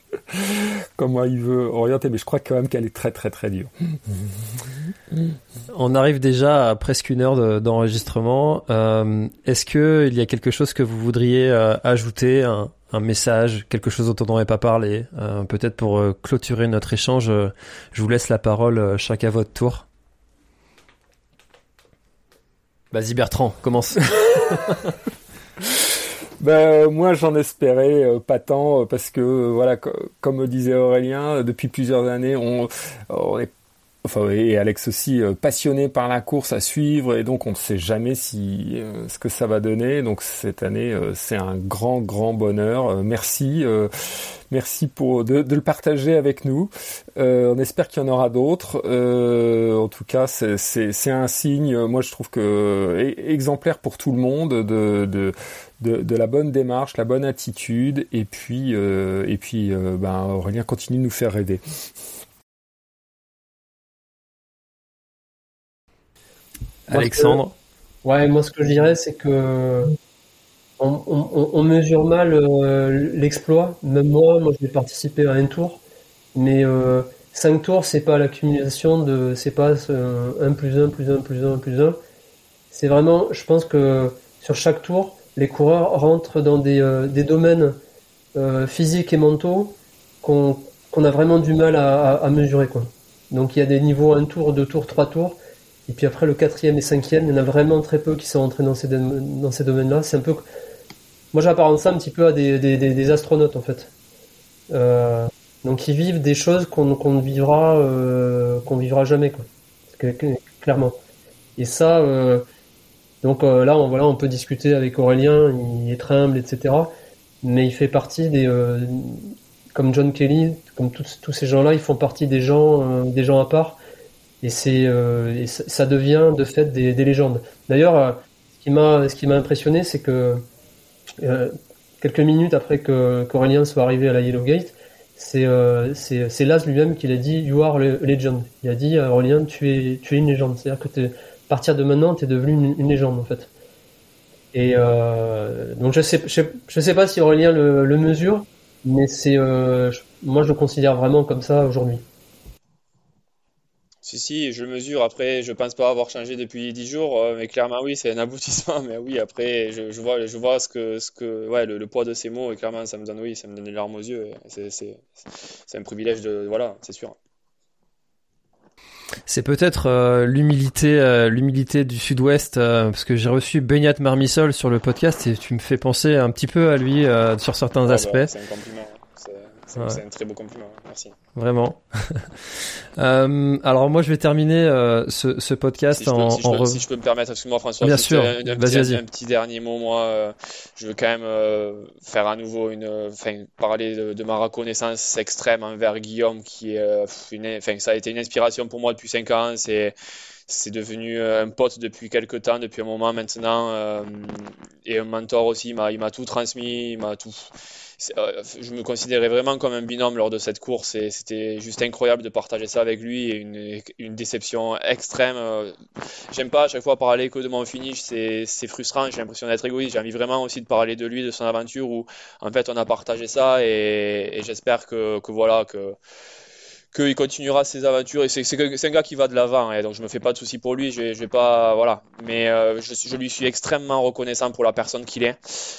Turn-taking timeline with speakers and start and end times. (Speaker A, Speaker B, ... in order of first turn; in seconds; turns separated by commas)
Speaker A: 0.3-4.0, Speaker B: 5.7-19.9, Speaker B: 22.9-24.9, Speaker A: 26.4-33.5, Speaker A: 34.0-61.6, Speaker B: 66.9-67.5, Speaker C: 66.9-67.4, Speaker C: 68.0-70.0, Speaker C: 70.8-75.8, Speaker C: 76.3-82.0, Speaker C: 82.7-87.8, Speaker C: 88.3-100.4, Speaker C: 101.3-103.9, Speaker C: 104.7-111.0, Speaker C: 111.6-112.5, Speaker C: 113.2-116.9, Speaker C: 117.4-123.8, Speaker C: 124.4-130.4, Speaker C: 131.2-143.5, Speaker C: 144.5-152.1, Speaker D: 154.0-167.2, Speaker B: 169.3-178.3, Speaker D: 177.9-181.2, Speaker B: 181.4-182.3, Speaker B: 183.0-186.8, Speaker D: 185.9-199.9, Speaker B: 187.8-189.0, Speaker D: 200.5-215.7, Speaker D: 216.3-226.0, Speaker D: 226.9-235.4